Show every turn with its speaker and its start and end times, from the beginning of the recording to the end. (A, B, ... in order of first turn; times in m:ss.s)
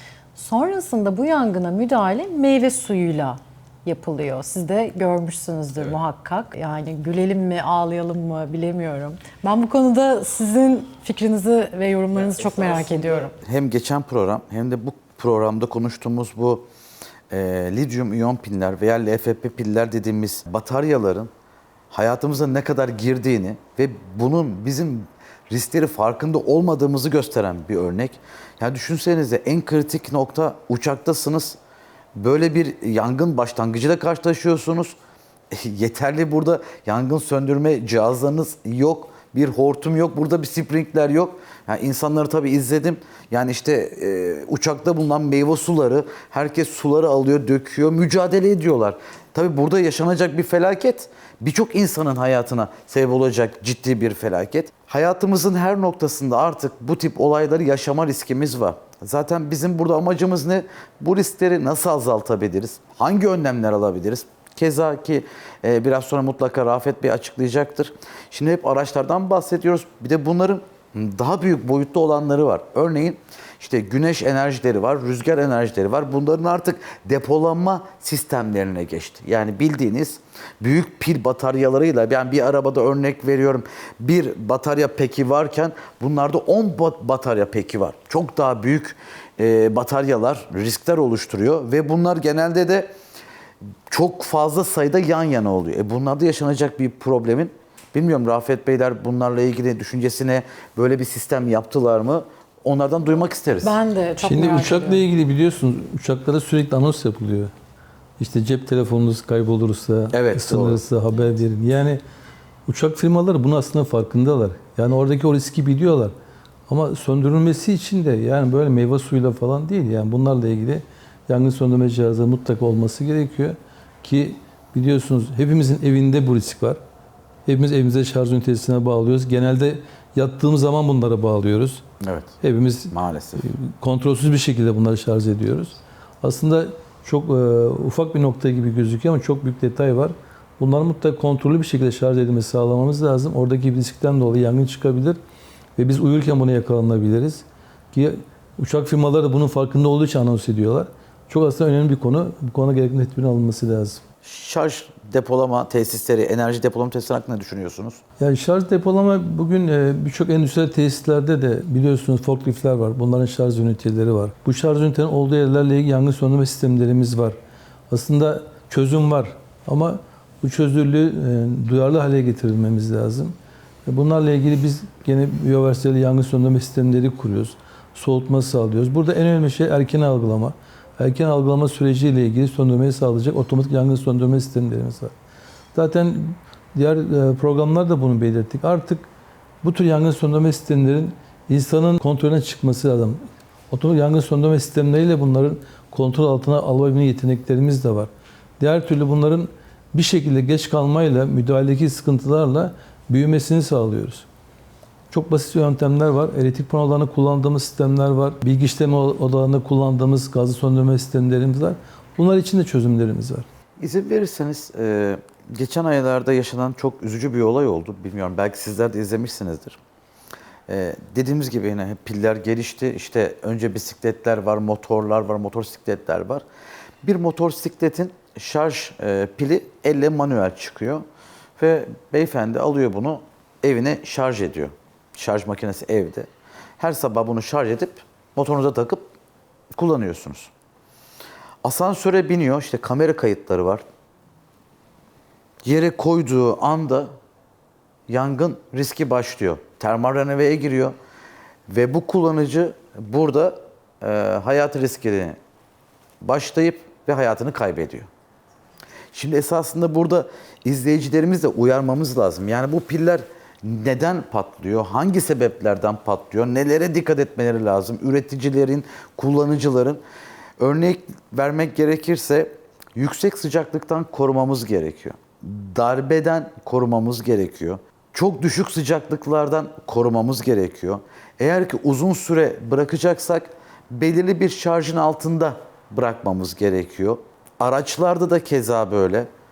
0:00.4-0:13.4 A
0:13.4-0:16.7 B
0:17.3-0:21.3 B
0:21.9-0:31.6 B
0:32.2-0:35.0 B
0:35.5-1:32.9 B
1:33.9-1:43.8 B
1:43.6-1:45.0 A
1:44.2-1:47.5 C
1:48.2-1:52.0 C
1:50.1-1:50.8 B
1:52.7-1:56.1 C
1:56.7-2:06.8 C
2:07.5-2:11.8 C
2:12.0-2:12.4 B
2:12.4-2:25.2 C
2:12.9-2:13.5 B
2:25.8-2:34.0 C
2:34.2-2:38.0 B
2:38.2-2:47.4 C
2:47.9-2:53.4 C
2:53.9-3:05.1 C
3:05.7-3:09.1 C
3:09.6-3:24.3 C
3:25.1-3:33.5 C
3:33.8-3:39.8 B
3:40.7-3:46.4 B
3:47.0-3:51.0 B
3:51.6-3:59.1 B
3:59.7-4:00.5 B
4:01.6-4:03.8 B
4:05.6-4:07.1 B
4:08.1-4:11.0 B
4:11.7-4:15.4 B
4:16.2-4:18.1 B
4:19.1-4:30.0 B
4:30.6-4:49.3 B